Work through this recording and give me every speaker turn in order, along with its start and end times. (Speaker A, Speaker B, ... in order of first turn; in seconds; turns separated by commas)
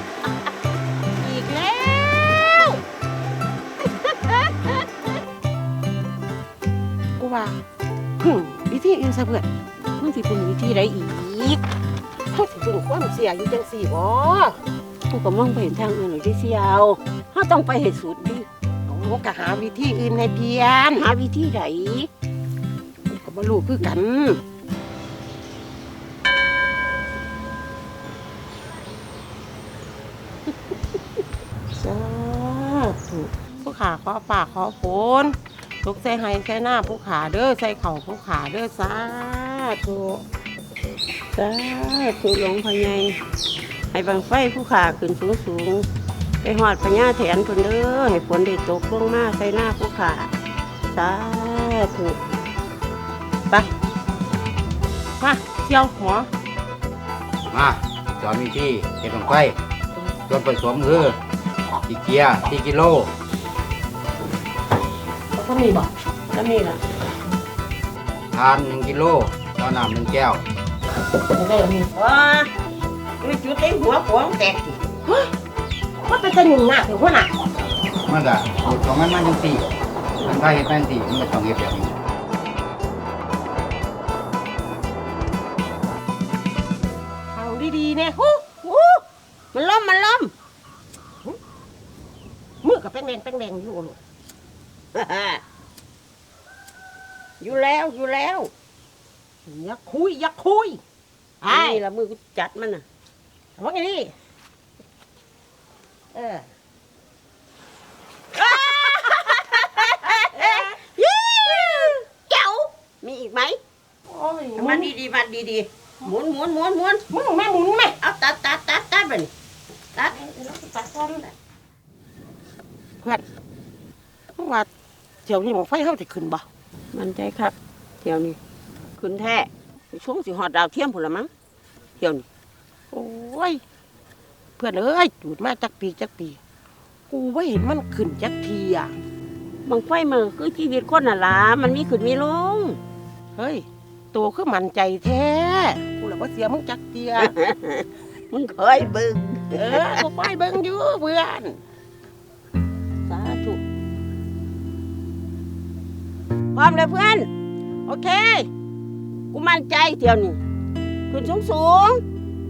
Speaker A: 1.2-2.8, Speaker B: 4.2-4.7, Speaker A: 7.2-7.6, Speaker A: 8.2-9.5, Speaker B: 10.0-11.6, Speaker A: 12.3-14.6, Speaker B: 15.1-18.5, Speaker A: 18.9-21.0, Speaker B: 20.9-22.1, Speaker A: 23.1-24.4, Speaker A: 31.8-40.2, Speaker B: 41.3-43.2, Speaker B: 43.9-45.9, Speaker B: 46.4-50.3, Speaker B: 50.9-52.2, Speaker A: 55.2-56.3, Speaker C: 57.5-59.5, Speaker C: 60.3-61.2, Speaker C: 61.9-63.1, Speaker A: 65.3-65.9, Speaker B: 66.3-66.8, Speaker C: 68.3-70.4, Speaker A: 71.3-71.9, Speaker B: 71.9-72.5, Speaker B: 73.2-74.8, Speaker A: 75.0-75.3, Speaker A: 76.0-77.3, Speaker C: 78.0-79.7, Speaker C: 80.2-81.9, Speaker A: 87.3-88.4, Speaker B: 88.6-90.3, Speaker A: 92.6-94.0, Speaker B: 94.9-95.4, Speaker B: 97.4-98.5, Speaker A: 99.5-100.8, Speaker A: 101.4-101.8, Speaker B: 101.5-102.8, Speaker A: 103.6-104.1, Speaker A: 106.1-106.4, Speaker B: 108.3-113.6, Speaker A: 110.3-110.7, Speaker A: 114.1-114.9, Speaker B: 114.6-117.0, Speaker A: 117.1-117.9, Speaker B: 118.0-119.3, Speaker B: 119.9-120.4, Speaker A: 120.2-121.1, Speaker B: 121.0-121.3, Speaker A: 124.4-124.7, Speaker A: 125.2-126.4, Speaker B: 126.9-128.4, Speaker B: 129.0-131.3, Speaker B: 132.0-132.2, Speaker A: 132.9-133.6, Speaker A: 134.6-136.4, Speaker A: 137.1-139.0, Speaker B: 139.7-142.8, Speaker A: 143.3-147.3, Speaker B: 147.2-150.0, Speaker A: 149.5-151.6, Speaker B: 153.1-153.6, Speaker B: 156.5-157.3, Speaker A: 157.8-158.5, Speaker B: 159.3-160.4, Speaker B: 161.1-162.0